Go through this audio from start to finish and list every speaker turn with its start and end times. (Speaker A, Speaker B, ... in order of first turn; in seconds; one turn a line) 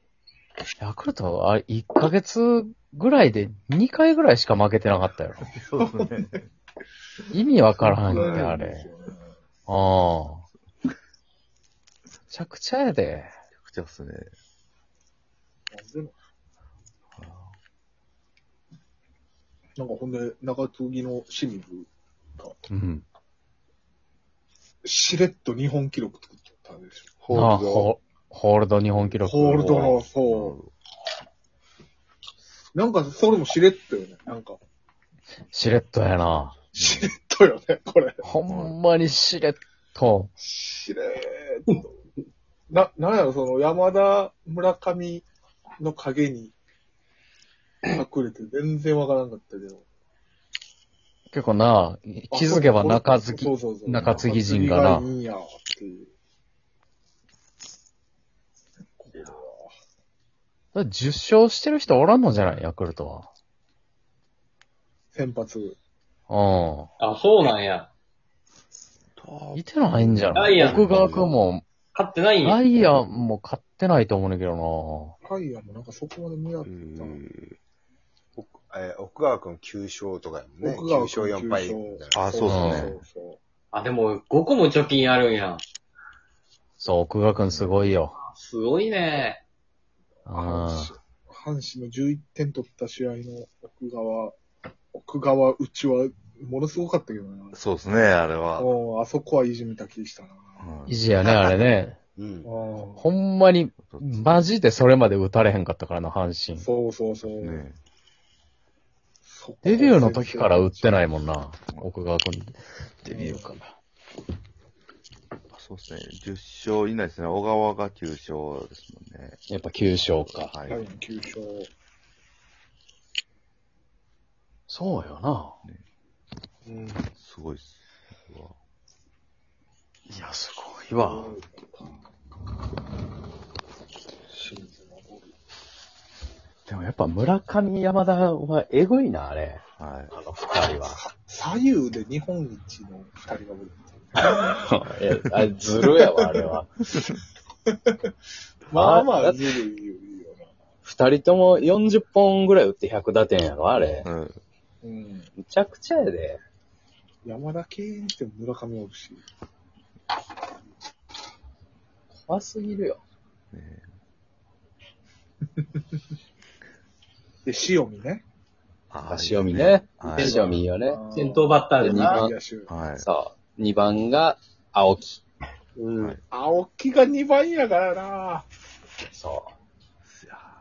Speaker A: 0.8-5.5
Speaker B: 5.4-6.4
Speaker C: 5.8-6.2
Speaker A: 7.3-8.8
Speaker C: 7.8-9.3
Speaker A: 9.7-10.4
Speaker A: 12.3-13.3
Speaker B: 13.5-14.3
Speaker C: 15.7-16.2
Speaker B: 17.1-17.6
Speaker C: 19.8-22.6
Speaker A: 22.7-23.0
Speaker C: 24.8-27.9
Speaker A: 27.3-30.0
Speaker C: 29.2-30.6
Speaker B: 30.2-30.7
Speaker C: 32.7-34.6
Speaker A: 35.5-36.5
Speaker B: 36.3-37.1
Speaker C: 36.7-38.2
Speaker A: 38.2-40.3
Speaker B: 38.5-38.8
Speaker C: 40.4-41.9
Speaker C: 42.7-45.3
Speaker C: 45.8-46.5
Speaker C: 47.9-49.8
Speaker A: 51.3-55.0
Speaker C: 52.3-56.1
Speaker B: 53.9-54.3
Speaker C: 59.0-59.7
Speaker A: 60.8-63.3
Speaker C: 65.1-65.8
Speaker A: 66.3-66.9
Speaker D: 67.0-67.9
Speaker B: 69.2-70.8
Speaker A: 69.5-71.7
Speaker D: 70.3-70.8
Speaker E: 70.6-71.4
Speaker D: 71.9-72.6
Speaker A: 72.4-75.2
Speaker C: 75.2-77.2
Speaker E: 76.7-77.6
Speaker E: 78.4-82.7
Speaker C: 80.6-83.4
Speaker B: 82.1-83.0
Speaker A: 82.5-82.9
Speaker D: 83.7-85.6
Speaker A: 86.8-88.1
Speaker B: 87.4-87.8
Speaker D: 88.3-89.4
Speaker C: 90.2-94.3
Speaker A: 90.3-90.9
Speaker C: 94.9-97.6
Speaker B: 97.5-98.7
Speaker C: 98.6-100.6
Speaker B: 100.6-101.0
Speaker A: 100.9-102.0
Speaker E: 102.2-102.5
Speaker C: 102.5-103.1
Speaker A: 103.0-106.7
Speaker B: 103.8-104.5
Speaker C: 106.6-107.6
Speaker B: 107.4-107.8
Speaker C: 109.3-111.2
Speaker A: 109.7-113.7
Speaker C: 113.1-113.6
Speaker B: 115.5-120.8
Speaker A: 119.5-120.5
Speaker C: 120.7-121.7
Speaker A: 124.7-125.6
Speaker C: 126.7-127.1
Speaker B: 127.2-128.6
Speaker A: 130.1-131.3
Speaker C: 131.0-132.0
Speaker C: 134.3-135.3
Speaker A: 136.7-141.0
Speaker B: 139.8-140.1
Speaker C: 141.0-144.7
Speaker A: 144.2-146.7
Speaker C: 148.7-150.5
Speaker A: 148.8-149.6
Speaker A: 150.8-154.1
Speaker B: 154.1-154.4
Speaker C: 154.8-155.3
Speaker A: 155.4-156.4
Speaker C: 157.2-159.2
Speaker A: 162.3-163.0
Speaker B: 163.5-163.9
Speaker C: 167.4-168.2
Speaker B: 168.9-170.3
Speaker A: 169.1-171.0
Speaker D: 170.1-172.2
Speaker C: 170.9-172.7
Speaker A: 171.8-172.3
Speaker B: 172.7-173.1
Speaker A: 173.0-175.2
Speaker D: 175.8-176.2
Speaker C: 176.3-178.5
Speaker A: 179.1-179.5
Speaker B: 180.2-180.5